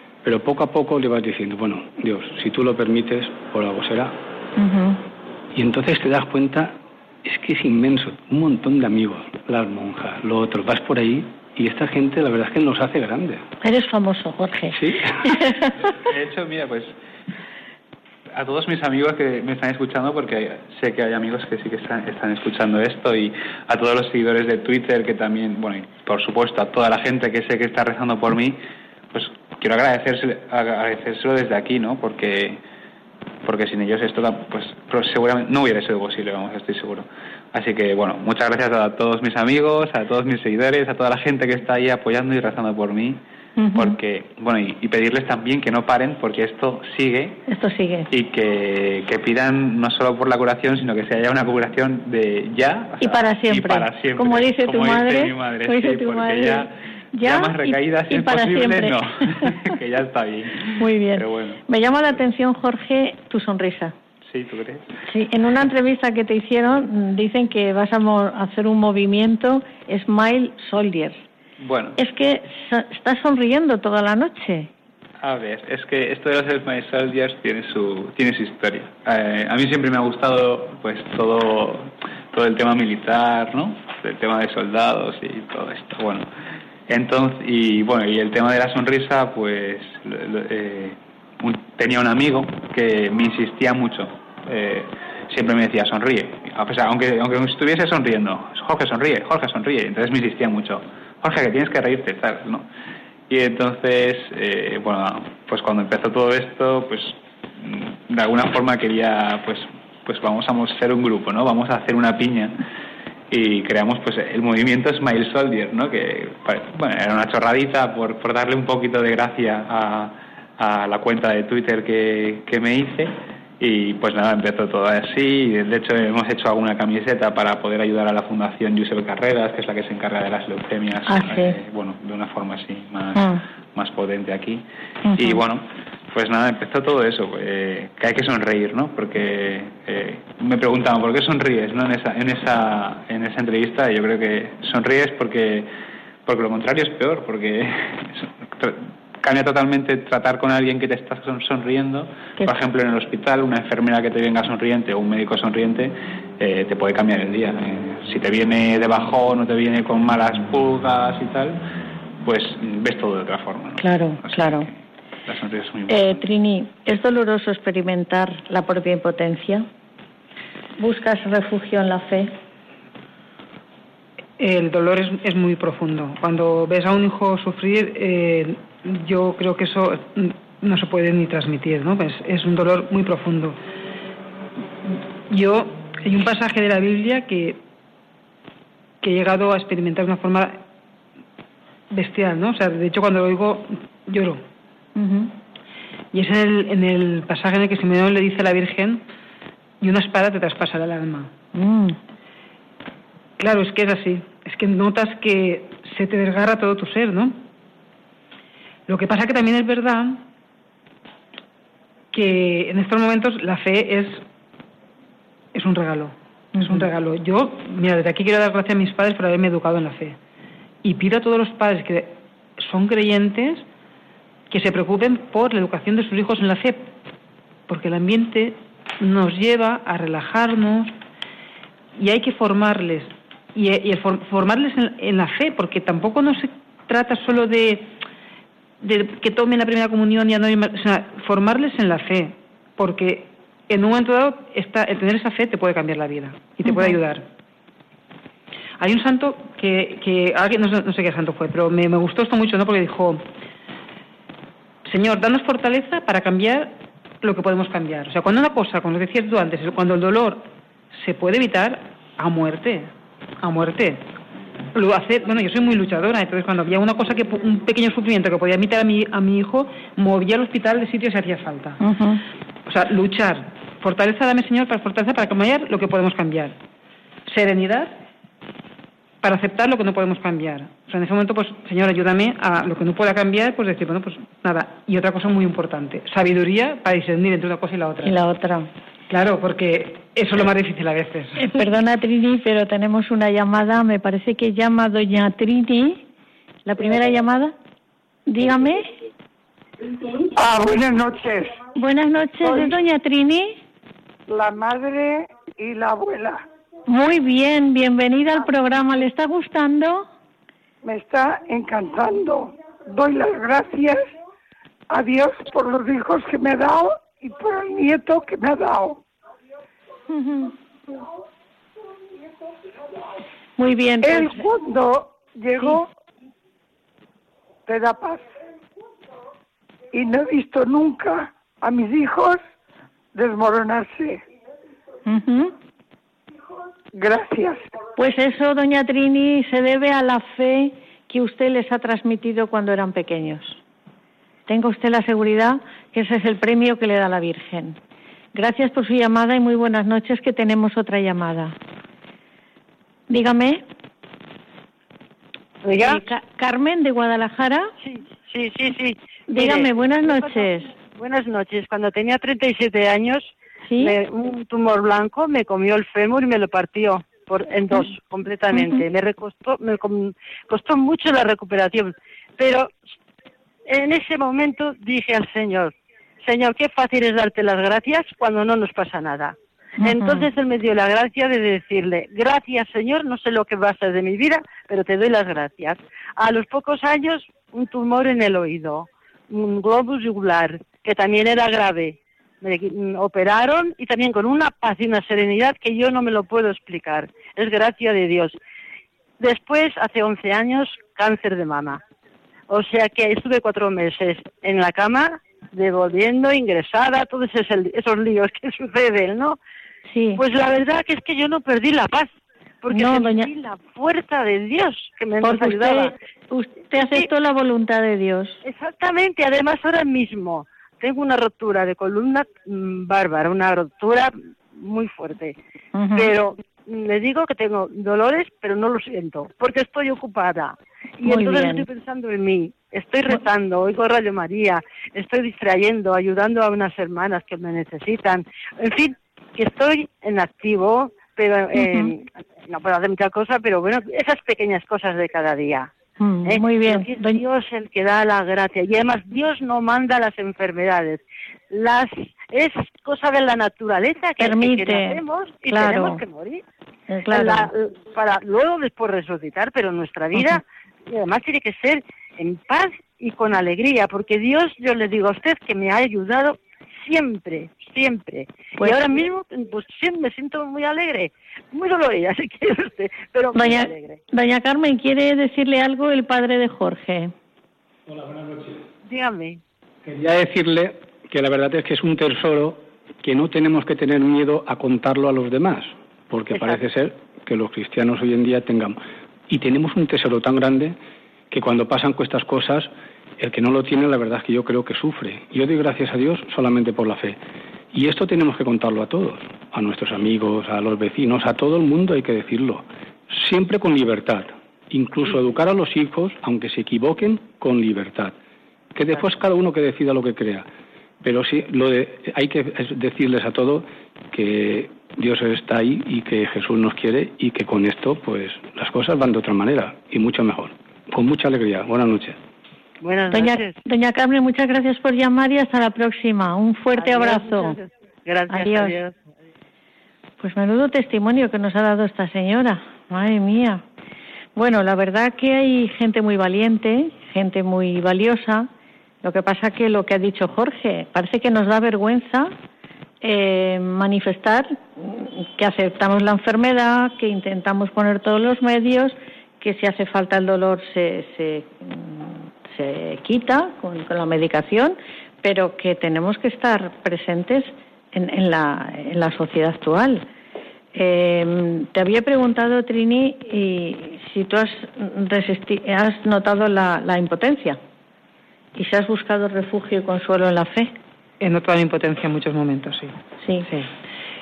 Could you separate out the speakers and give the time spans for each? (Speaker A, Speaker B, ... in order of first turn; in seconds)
Speaker A: 0.2-4.2, 5.5-13.4, 14.7-15.1, 477.9-478.6, 479.8-490.8, 491.3-497.2, 497.7-508.2, 508.7-510.5, 511.0-522.2
Speaker B: 4.6-5.0, 13.6-15.7, 43.6-44.0, 47.5-48.1, 53.0-59.6, 60.8-63.9, 65.1-71.2, 72.0-74.7, 131.1-131.6, 135.1-135.4, 163.8-164.7, 165.9-169.7, 170.8-172.3, 195.0-195.3, 201.6-202.0, 216.6-216.9, 246.7-246.9, 271.8-272.2, 288.0-288.7, 291.4-296.1, 296.7-297.5, 298.3-298.9, 301.8-303.6, 306.9-310.1, 320.1-320.5, 323.6-324.4, 325.6-325.8, 335.1-335.5, 338.0-343.6, 344.5-347.8, 348.3-351.6, 353.1-353.6, 355.8-357.7, 359.3-360.7, 363.7-364.0, 368.5-368.8, 379.8-380.3, 409.9-410.2, 412.7-413.3, 415.2-418.4, 425.8-426.1, 431.1-431.7, 441.6-441.9, 446.0-447.2, 454.2-456.0, 456.9-457.5, 468.6-469.0, 473.3-477.1, 523.1-527.6, 528.3-528.8, 530.2-533.6, 534.4-538.5, 539.0-542.3, 543.0-560.0, 560.8-567.6, 568.6-570.7
Speaker C: 15.9-16.9, 18.3-28.6, 29.1-32.6, 33.4-43.2, 43.8-47.4, 48.1-61.6, 64.3-64.9, 71.6-72.0, 75.2-86.3, 86.9-102.7, 103.3-112.6, 113.3-145.7, 146.3-161.6, 162.2-166.2
Speaker D: 174.4-183.6, 185.3-187.6, 189.0-190.6, 191.9-194.4, 196.1-199.0, 199.8-201.3, 203.4-207.4, 208.9-210.2, 212.1-214.2, 215.5-220.2, 220.8-223.6, 224.5-226.9, 227.7-230.9, 232.0-237.9, 238.8-247.3, 248.8-253.2, 254.8-262.9, 263.4-264.0, 264.8-271.8, 272.7-276.6, 277.3-278.0, 279.2-288.2, 289.1-291.4, 571.2-573.7
Speaker E: 300.0-301.6, 302.4-302.8, 304.3-306.4, 310.8-314.1, 314.9-319.0, 324.0-325.9, 327.7-328.2, 329.9-332.4, 333.1-334.2, 336.9-337.6
Speaker F: 355.6-356.0, 357.8-372.7, 373.7-398.4, 399.2-401.8, 402.5-409.4, 410.2-416.0, 416.8-417.1, 418.4-425.4, 426.0-445.7, 446.2-456.4, 457.1-474.0, 478.8-479.4, 522.8-523.6, 526.7-529.0